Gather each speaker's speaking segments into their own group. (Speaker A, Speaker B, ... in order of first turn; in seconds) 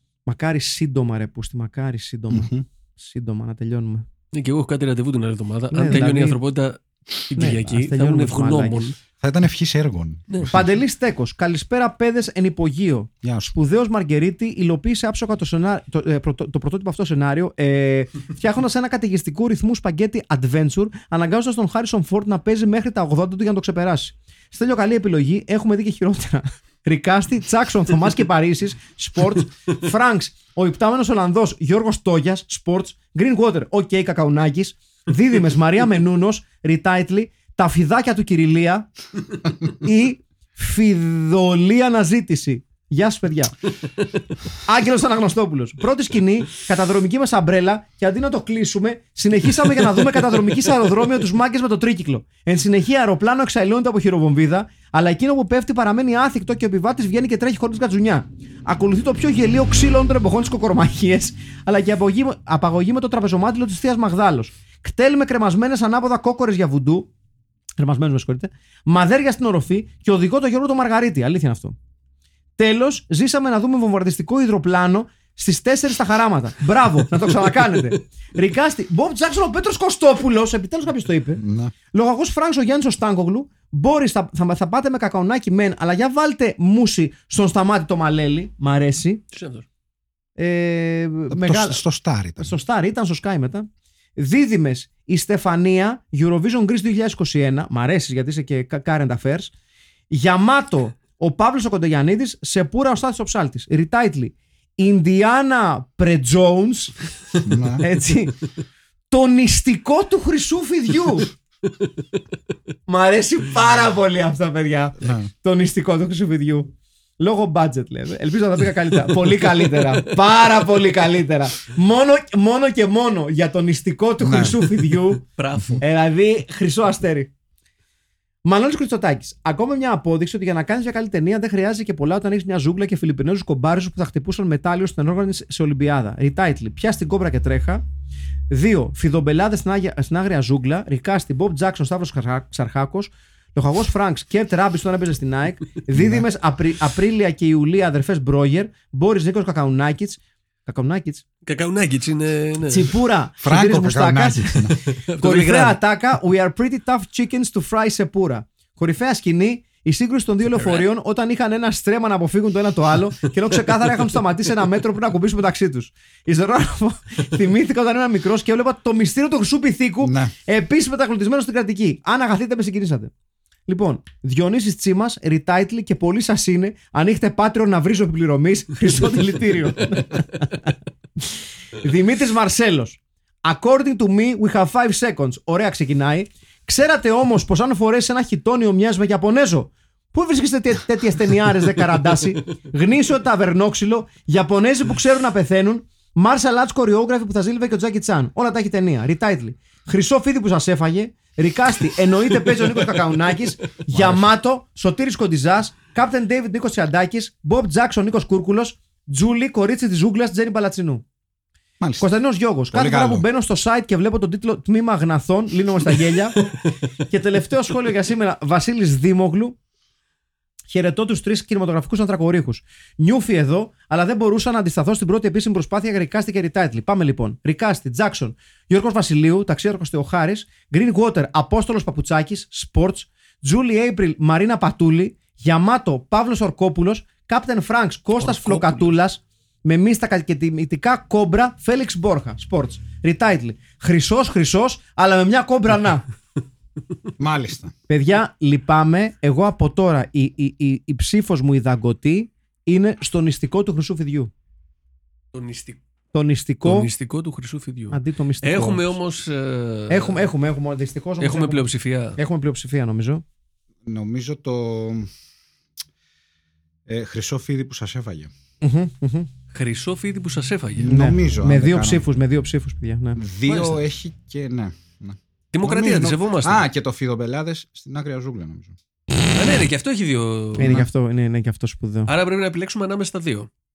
Speaker A: 0.3-4.1, 5.7-6.4, 7.3-8.9, 10.5-38.9, 39.7-43.6, 44.6-67.1, 67.8-71.8, 72.6-89.2, 90.4-91.8, 92.4-99.5, 100.1-107.0, 107.8-108.4, 109.1-111.3, 112.9-125.2, 125.8-127.3, 128.4-137.8, 138.5-151.2, 152.7-173.1, 173.7-180.7, 181.8-211.0, 212.0-216.5, 217.1-219.6, 220.7-246.1, 247.9-254.3, 256.1-256.9, 257.9-258.9, 259.9-263.2, 268.6-269.3, 270.9-273.2, 280.6-282.1
Speaker B: 2.3-2.6, 9.2-10.6, 13.2-13.5, 81.4-81.7, 91.3-92.5, 107.4-107.8, 115.0-115.3, 124.2-124.7, 145.9-146.3, 153.4-154.8, 170.0-170.3, 203.9-204.2, 211.8-212.1, 212.7-213.3, 247.2-247.7, 263.9-265.1, 266.9-268.3, 270.8-272.0, 273.2-278.8
Speaker C: 4.3-9.0, 89.3-89.6, 119.5-120.0, 125.4-125.8, 151.5-152.9, 154.9-155.8, 160.6-160.8, 238.2-238.8, 255.3-255.8, 256.6-260.3, 261.2-262.2, 269.5-270.9, 273.5-273.8, 275.5-276.6, 279.3-280.9, 282.1-283.5